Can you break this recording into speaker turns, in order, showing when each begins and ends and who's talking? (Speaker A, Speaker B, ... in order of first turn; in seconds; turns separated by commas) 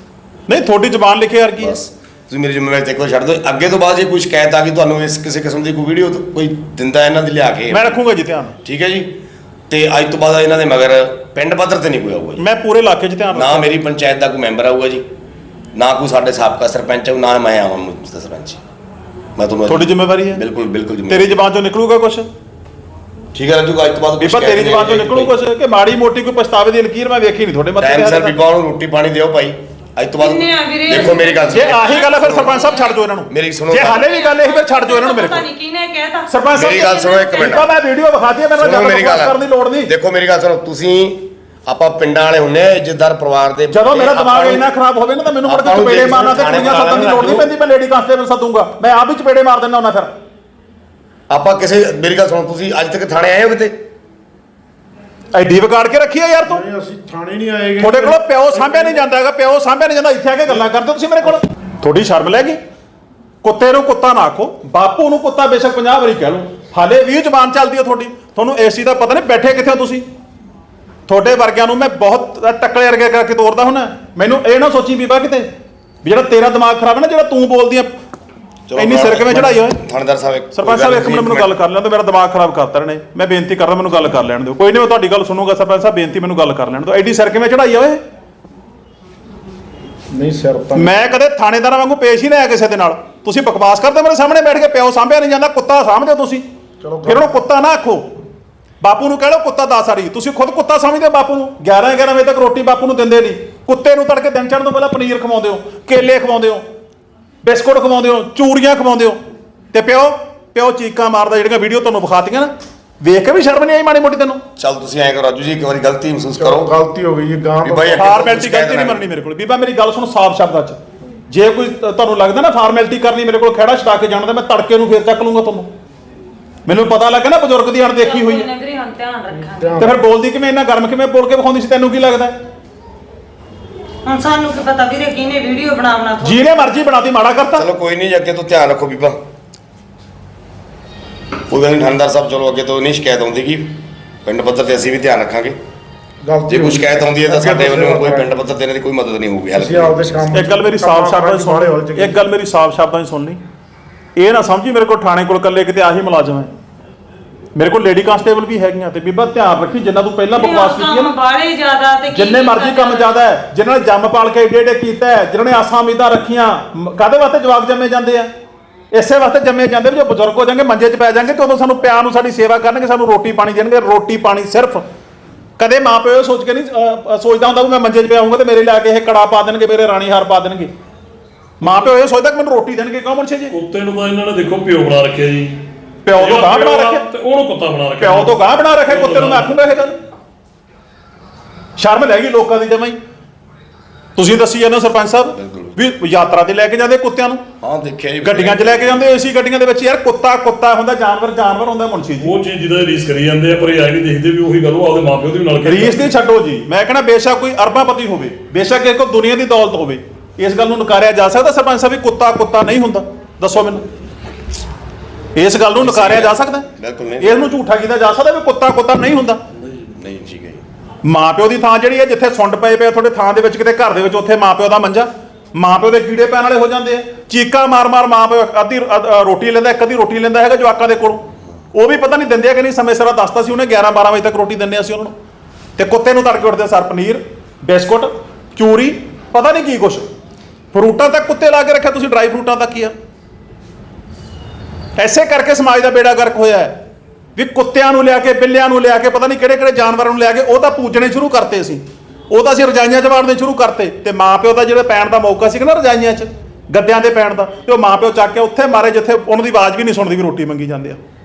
Speaker A: 0.5-1.8, Speaker B: 1.6-8.0, Speaker A: 7.7-8.6, Speaker B: 8.6-9.2, Speaker B: 9.7-12.4, Speaker A: 12.4-13.8, Speaker B: 13.3-15.1, Speaker B: 15.7-18.6, Speaker B: 19.4-21.4, Speaker A: 19.7-20.4, Speaker A: 21.1-22.3, Speaker B: 23.3-25.3, Speaker A: 24.2-28.4, Speaker B: 27.8-32.8, Speaker C: 30.2-33.0, Speaker A: 30.9-35.5, Speaker B: 33.3-34.1, Speaker C: 34.0-36.2, Speaker A: 36.3-39.9, Speaker B: 36.5-37.7, Speaker C: 36.8-37.5, Speaker B: 38.5-44.7, Speaker A: 43.7-50.1, Speaker B: 45.4-47.5, Speaker B: 51.3-53.7, Speaker A: 55.3-56.6, Speaker D: 56.5-59.0, Speaker A: 57.8-62.6, Speaker A: 63.4-70.0, Speaker A: 71.1-75.5, Speaker A: 76.0-77.9, Speaker B: 78.7-81.5, Speaker A: 78.7-79.8, Speaker A: 80.5-88.0, Speaker D: 90.1-90.9, Speaker A: 90.8-96.5, Speaker D: 96.8-97.3, Speaker A: 97.1-98.0, Speaker A: 98.8-106.7, Speaker A: 107.4-109.2, Speaker A: 109.7-114.4, Speaker B: 114.6-116.7, Speaker D: 116.4-118.2, Speaker B: 117.6-119.0, Speaker A: 117.9-125.7, Speaker A: 126.7-128.5, Speaker C: 128.0-129.7, Speaker D: 129.6-129.9, Speaker A: 129.8-132.4, Speaker C: 134.0-136.5, Speaker A: 136.2-137.7, Speaker B: 137.5-139.2, Speaker B: 141.5-145.6, Speaker D: 146.2-148.3, Speaker B: 146.5-150.3, Speaker D: 149.5-152.2, Speaker A: 150.3-153.4, Speaker A: 154.2-156.5, Speaker A: 157.5-161.1, Speaker C: 160.3-163.2, Speaker A: 162.1-168.3, Speaker A: 168.9-174.8, Speaker A: 175.6-180.7, Speaker A: 181.6-183.5, Speaker E: 183.5-185.6, Speaker A: 186.0-187.0, Speaker E: 186.2-188.3, Speaker A: 188.0-190.0, Speaker E: 188.9-189.5, Speaker A: 191.8-193.0, Speaker A: 194.2-197.4, Speaker B: 195.3-195.7, Speaker B: 197.6-199.0, Speaker A: 198.2-202.4, Speaker E: 202.2-206.1, Speaker A: 205.6-213.8, Speaker A: 215.3-216.7, Speaker B: 215.8-217.4, Speaker A: 217.2-219.4, Speaker B: 220.0-220.6, Speaker A: 221.0-235.1, Speaker A: 235.8-240.1, Speaker A: 240.7-242.9, Speaker A: 245.0-246.8, Speaker A: 247.3-261.0